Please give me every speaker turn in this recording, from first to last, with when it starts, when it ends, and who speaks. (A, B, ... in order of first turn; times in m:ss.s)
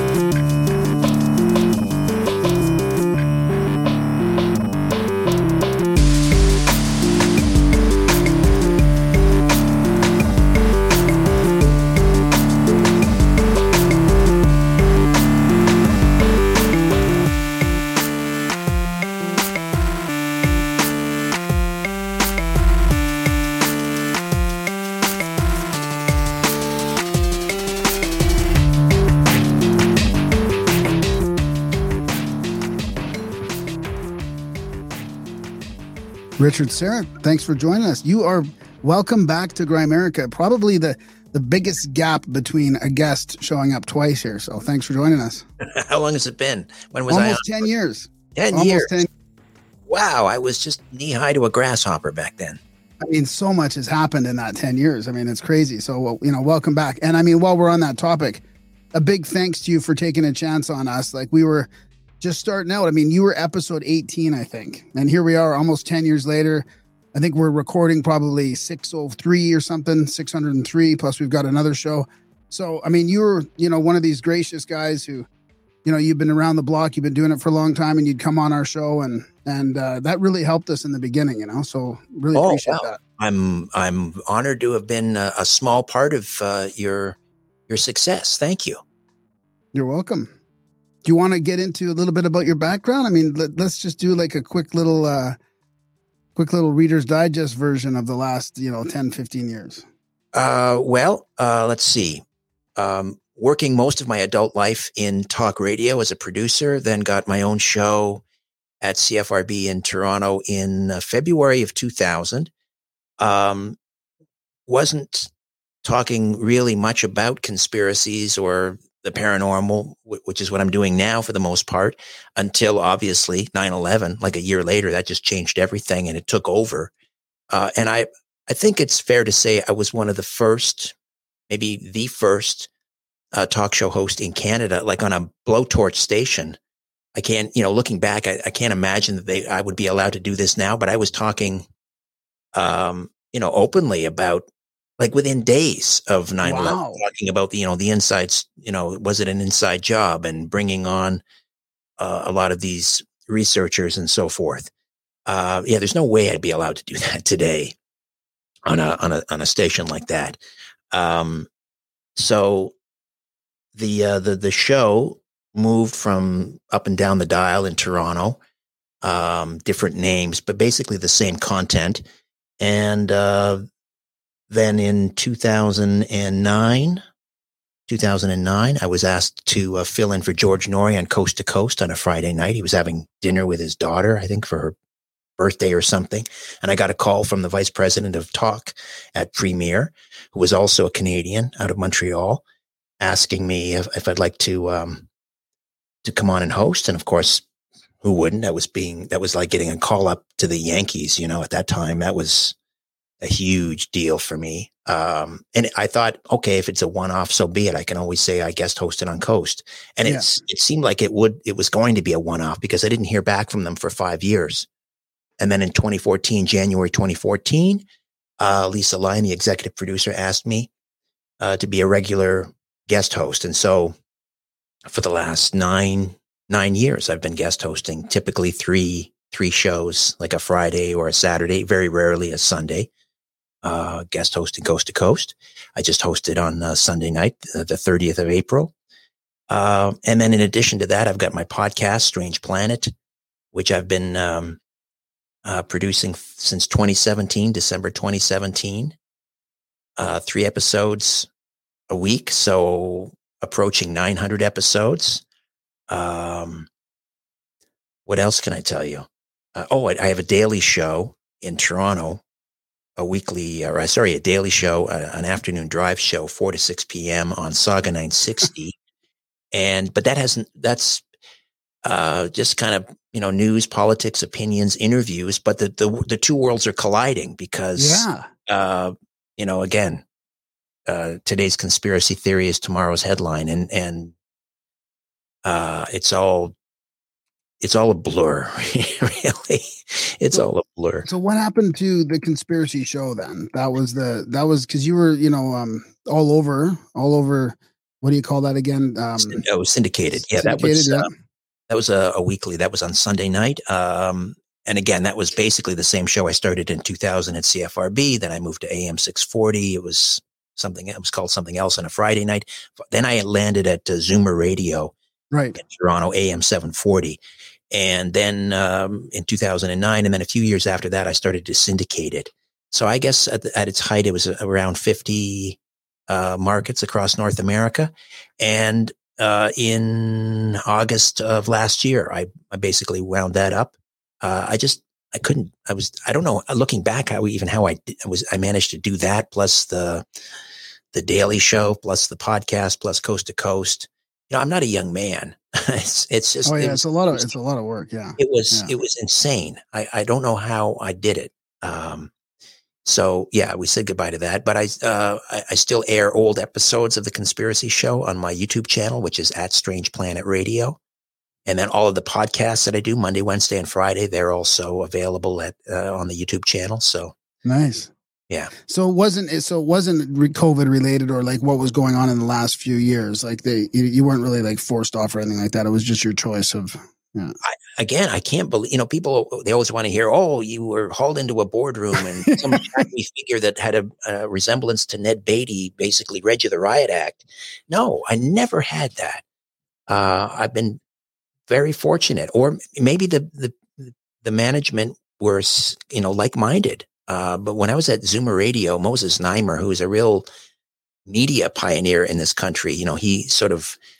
0:36.4-0:45.4 A
0:45.6-0:47.7 B
0:47.1-0:49.1 A
0:48.3-0:48.9 B
0:49.9-0:52.6 B
0:53.0-0:58.4 A
0:58.9-1:01.7 A
1:02.2-1:15.3 A
1:15.8-1:23.0 A
1:22.3-1:28.8 B
1:29.7-1:30.3 A
1:31.0-1:35.4 A
1:36.4-1:39.8 A
1:40.3-1:42.2 B
1:42.8-1:48.2 B
1:48.8-1:52.5 B
1:53.2-1:53.8 B
1:54.7-1:55.3 B
1:55.8-2:06.9 B
2:07.5-2:10.9 B
2:11.5-2:12.7 B
2:13.3-2:16.6 B
2:17.1-2:21.7 B
2:22.5-2:24.5 B
2:25.0-2:31.2 B
2:26.4-2:27.0 A
2:32.0-2:34.7 B
2:35.2-2:37.8 B
2:38.7-2:40.4 B
2:40.9-2:41.5 B
2:42.2-2:42.7 B
2:43.7-2:48.4 B
2:49.0-2:52.0 B
2:52.6-2:53.6 B
2:54.5-2:57.0 B
2:57.9-3:04.7 B
3:05.4-3:12.4 B
3:13.0-3:15.0 B
3:16.0-3:17.4 B
3:18.0-3:22.5 B
3:23.2-3:34.7 B
3:35.4-3:37.8 B
3:38.4-3:40.7 B
3:41.4-3:43.9 B
3:44.9-3:52.9 B
3:53.6-3:58.7 B
3:59.5-4:02.9 B
4:03.5-4:04.6 B
4:05.4-4:09.0 B
4:10.0-4:11.3 B
4:11.9-4:15.2 B
4:15.9-4:16.7 B
4:18.0-4:22.2 B
4:23.0-4:28.8 B
4:29.5-4:31.0 B
4:31.8-4:40.0 B
4:37.8-4:38.3 A
4:40.9-4:44.1 B
4:45.4-4:46.5 B
4:47.6-4:51.1 B
4:51.0-4:59.4 A
4:59.2-5:01.1 B
5:00.3-5:01.1 A
5:01.7-5:14.9 B
5:15.3-5:15.6 A
5:15.6-5:17.2 B
5:17.7-5:25.6 B
5:26.1-5:40.0 B
5:40.9-5:47.3 B
5:46.4-5:48.7 A
5:48.2-5:52.1 B
5:52.8-6:00.8 B
6:01.4-6:07.1 B
6:07.4-6:07.9 A
6:08.7-6:17.3 A
6:17.4-6:29.2 B
6:22.2-6:22.8 A
6:29.9-6:30.8 B
6:31.5-6:40.2 B
6:41.0-6:43.8 B